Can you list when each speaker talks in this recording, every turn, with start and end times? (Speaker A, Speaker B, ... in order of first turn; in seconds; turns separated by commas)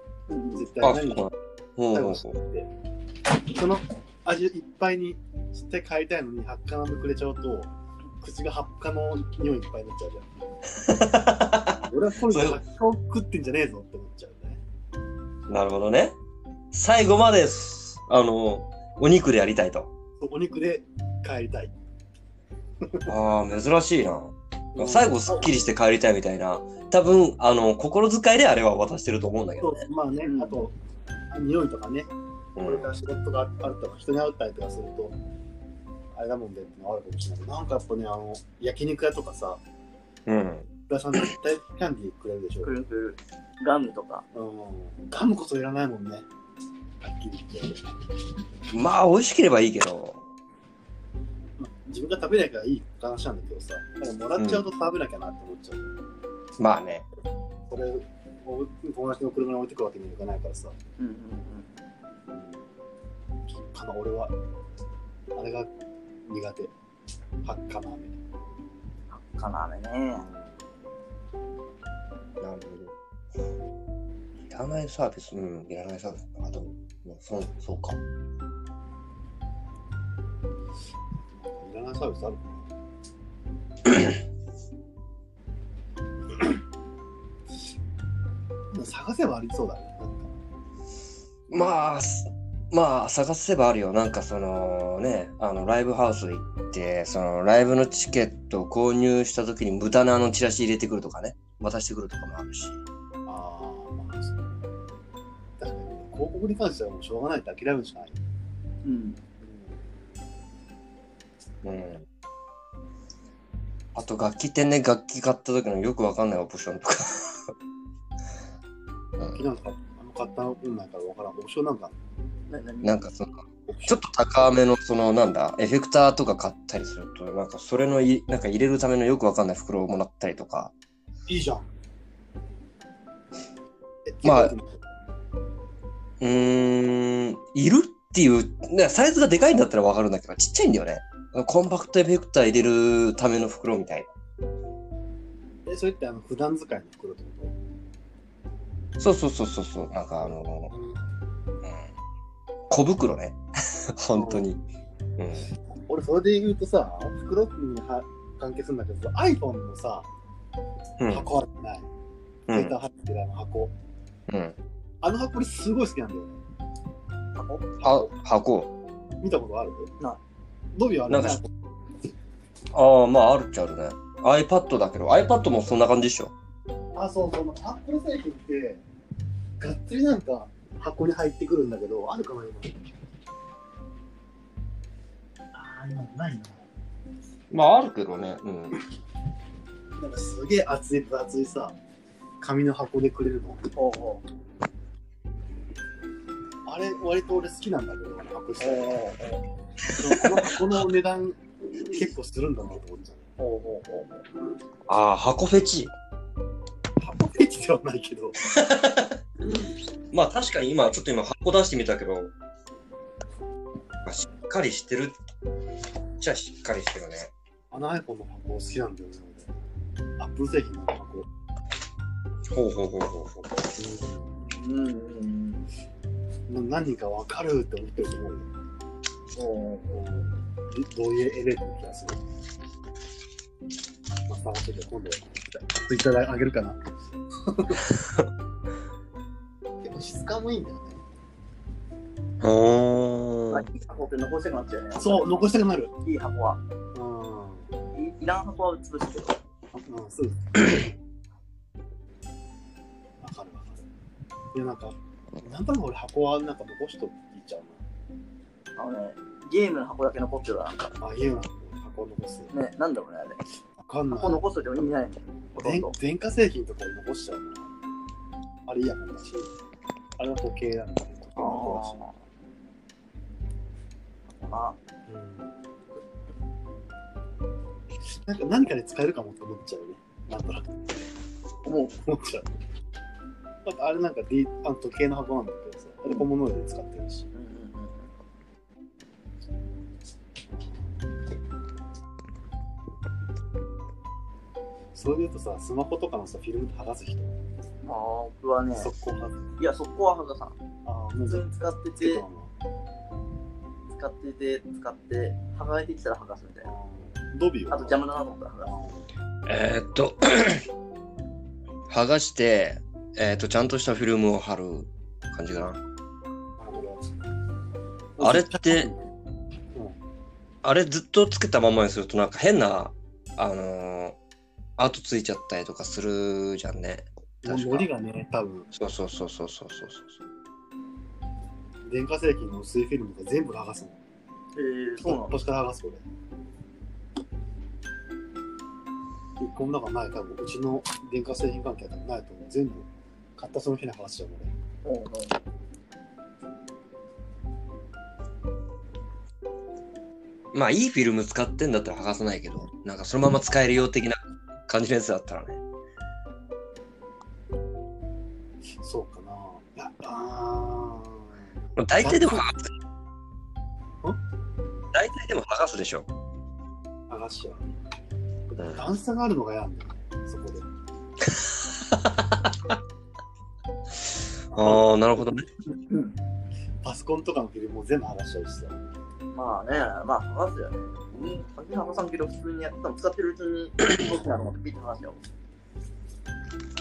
Speaker A: 0.3-0.7, Speaker B: 0.6-1.3, Speaker C: 0.8-2.4, Speaker B: 1.9-2.7, Speaker B: 3.5-7.7, Speaker B: 8.2-10.3, Speaker C: 10.8-12.6, Speaker B: 11.8-14.6, Speaker C: 15.5-16.2, Speaker C: 16.7-19.9, Speaker B: 20.2-21.7, Speaker B: 22.8-23.1, Speaker C: 23.1-29.8, Speaker B: 24.8-25.5, Speaker B: 29.6-30.8, Speaker A: 30.2-30.6, Speaker B: 31.3-35.2, Speaker C: 32.6-32.9, Speaker B: 36.1-39.6, Speaker C: 40.3-40.7, Speaker B: 40.9-42.7, Speaker A: 42.6-44.2, Speaker B: 44.3-46.3, Speaker B: 47.0-47.8, Speaker C: 48.7-50.2, Speaker B: 51.6-55.9, Speaker C: 54.4-54.6, Speaker C: 56.6-57.1, Speaker B: 57.7-60.8, Speaker A: 61.0-61.7, Speaker B: 62.3-62.6, Speaker B: 63.5-64.3, Speaker B: 65.3-65.7, Speaker B: 66.3-66.7, Speaker B: 67.4-68.2, Speaker A: 69.1-70.3, Speaker B: 70.2-70.8, Speaker C: 72.4-72.9, Speaker C: 74.5-78.0, Speaker B: 81.4-82.7, Speaker B: 88.7-90.3, Speaker C: 91.5-102.8, Speaker B: 103.3-104.4, Speaker B: 105.6-108.2, Speaker A: 108.8-109.2, Speaker B: 109.4-109.8, Speaker C: 111.6-112.0, Speaker C: 114.0-117.5, Speaker B: 119.3-121.9, Speaker A: 122.5-123.0, Speaker C: 122.8-130.7, Speaker B: 123.7-124.1, Speaker B: 131.3-131.7, Speaker B: 134.1-134.8, Speaker C: 134.2-134.6, Speaker C: 136.2-144.1, Speaker B: 145.7-147.6, Speaker C: 149.0-150.7, Speaker B: 150.7-151.0, Speaker C: 152.7-153.4, Speaker C: 154.0-154.6, Speaker B: 154.2-154.5, Speaker C: 155.2-155.5, Speaker B: 155.9-160.1, Speaker C: 161.0-161.3, Speaker B: 161.1-161.9, Speaker C: 162.5-162.8, Speaker B: 162.5-163.7, Speaker C: 164.3-164.6, Speaker B: 165.0-166.4, Speaker A: 167.3-167.7, Speaker B: 167.8-168.2, Speaker C: 167.8-168.7, Speaker B: 169.2-169.9, Speaker B: 170.8-171.5, Speaker C: 171.1-171.4, Speaker C: 172.7-176.3, Speaker B: 176.9-178.8, Speaker B: 179.6-182.8, Speaker B: 185.5-186.7, Speaker C: 187.5-188.8, Speaker B: 190.0-191.8, Speaker B: 192.4-193.7, Speaker A: 193.7-194.2, Speaker B: 196.7-199.0, Speaker A: 198.6-199.4, Speaker B: 200.0-203.3, Speaker C: 200.1-200.8, Speaker A: 203.4-204.3, Speaker C: 204.9-205.9, Speaker B: 207.0-208.4, Speaker C: 208.4-209.2, Speaker C: 210.1-212.3, Speaker C: 214.1-215.2, Speaker C: 216.2-217.3, Speaker B: 217.7-219.5, Speaker B: 220.2-221.3, Speaker C: 222.5-223.4, Speaker B: 223.7-224.6, Speaker A: 224.5-225.7, Speaker B: 226.5-228.5, Speaker A: 229.3-230.1, Speaker B: 229.9-232.2, Speaker B: 234.3-236.8, Speaker B: 237.4-237.8, Speaker C: 237.7-238.3, Speaker B: 239.8-241.0, Speaker C: 242.4-243.7, Speaker A: 243.5-246.6, Speaker B: 245.0-245.9, Speaker B: 246.9-247.7, Speaker A: 247.9-249.4, Speaker B: 249.8-250.9, Speaker B: 253.2-253.9, Speaker B: 254.5-257.8, Speaker A: 258.8-260.9, Speaker B: 261.0-262.5, Speaker A: 262.5-263.4, Speaker B: 263.8-264.4, Speaker A: 264.1-265.9, Speaker B: 265.6-267.7, Speaker B: 268.7-269.5, Speaker B: 270.2-272.0, Speaker A: 271.4-272.2, Speaker A: 274.4-274.8, Speaker B: 275.1-275.5, Speaker B: 278.1-281.0, Speaker A: 281.6-281.9, Speaker B: 282.0-282.5, Speaker B: 283.6-287.3, Speaker A: 287.3-288.1, Speaker B: 290.5-291.0, Speaker B: 294.9-297.4, Speaker A: 297.8-298.9, Speaker B: 298.8-299.5, Speaker A: 299.6-300.6, Speaker B: 300.9-302.5, Speaker A: 301.2-302.2, Speaker A: 303.9-306.7, Speaker B: 306.6-308.0, Speaker A: 307.7-308.7, Speaker B: 308.6-309.1, Speaker C: 309.5-310.6, Speaker C: 311.9-315.8, Speaker B: 316.6-317.1, Speaker B: 318.2-319.0, Speaker C: 318.2-318.9, Speaker C: 320.6-324.2, Speaker C: 324.8-327.9, Speaker B: 327.4-328.7, Speaker C: 328.7-330.2, Speaker B: 331.9-334.0, Speaker A: 334.6-335.4, Speaker B: 335.0-336.0, Speaker B: 339.4-344.5, Speaker A: 344.9-345.4, Speaker C: 350.5-355.6, Speaker B: 358.8-362.4, Speaker C: 361.8-362.7, Speaker C: 364.9-366.1, Speaker B: 367.1-367.7, Speaker B: 368.5-370.6, Speaker C: 368.6-368.9, Speaker C: 371.3-372.8, Speaker C: 374.5-375.5, Speaker B: 374.5-375.5, Speaker B: 376.8-378.8, Speaker A: 379.3-385.2